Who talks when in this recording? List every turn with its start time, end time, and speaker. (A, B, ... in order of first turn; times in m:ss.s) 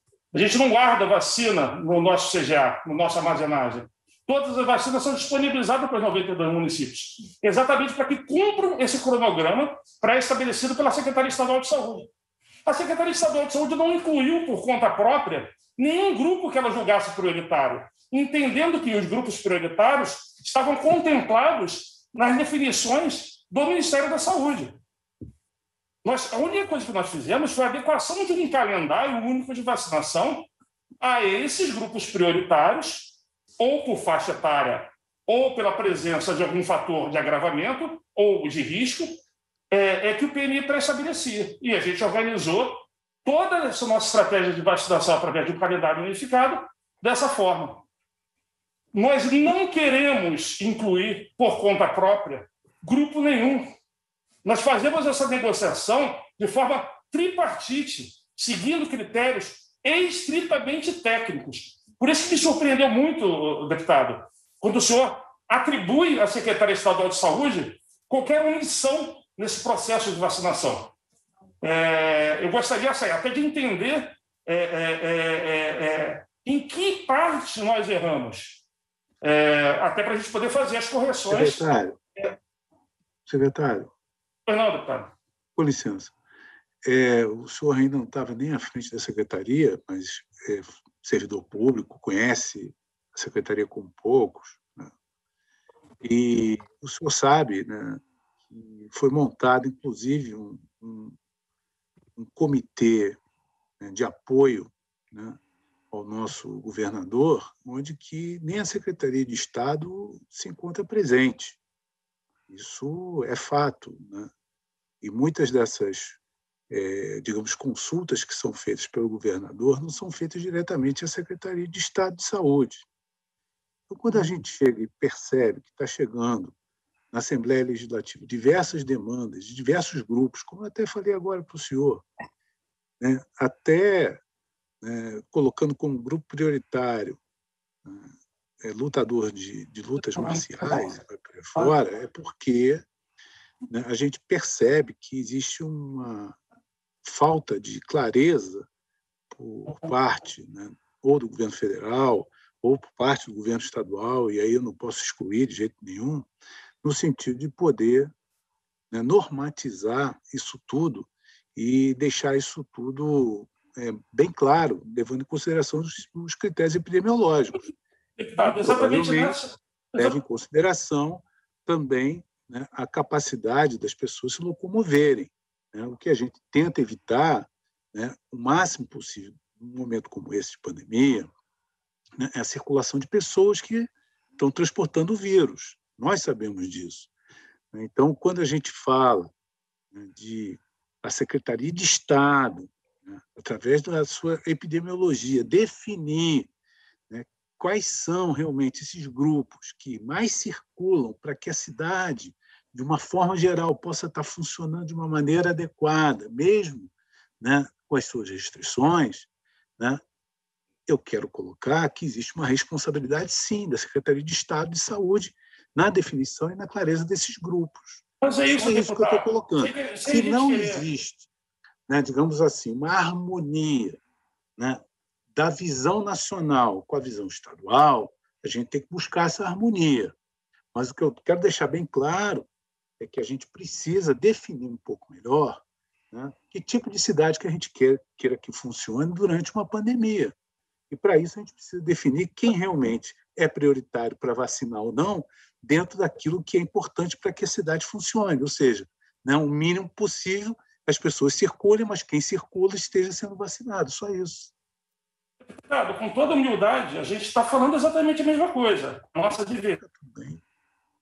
0:00.3-0:12.1 A
0:12.6-0:24.8 A
0:26.0-0:30.5 A
0:31.0-0:39.2 A
0:39.7-0:47.8 A
0:48.9-0:53.7 A
0:54.4-1:10.9 A
1:11.6-1:18.6 A
1:19.2-1:21.6 A
1:21.3-1:22.0 B
1:23.2-1:23.9 B
1:24.4-1:25.1 A
1:25.6-1:26.1 B
1:26.8-1:34.9 B
1:36.0-1:41.2 B
1:42.2-1:43.2 B
1:43.8-1:45.4 B
1:45.9-1:51.6 B
1:52.5-1:54.3 B
1:55.0-1:56.2 B
1:56.7-2:02.8 B
2:03.9-2:06.5 B
2:07.1-2:12.0 B
2:13.0-2:14.2 B
2:14.8-2:17.2 B
2:17.8-2:22.8 B
2:23.7-2:26.4 B
2:27.0-2:28.7 B
2:29.3-2:36.3 B
2:36.8-2:38.1 B
2:38.9-2:47.6 B
2:48.2-2:50.2 A
2:48.4-2:49.4 B
2:49.9-3:01.3 B
3:02.2-3:07.1 B
3:07.7-3:09.3 B
3:09.9-3:16.5 B
3:17.1-3:30.0 B
3:30.9-3:41.3 B
3:38.2-3:40.8 A
3:41.9-3:44.0 B
3:44.6-3:44.8 B
3:45.3-3:50.1 B
3:50.7-3:52.5 B
3:53.0-4:00.3 B
4:00.9-4:14.5 B
4:15.5-4:19.8 A
4:19.8-4:20.4 B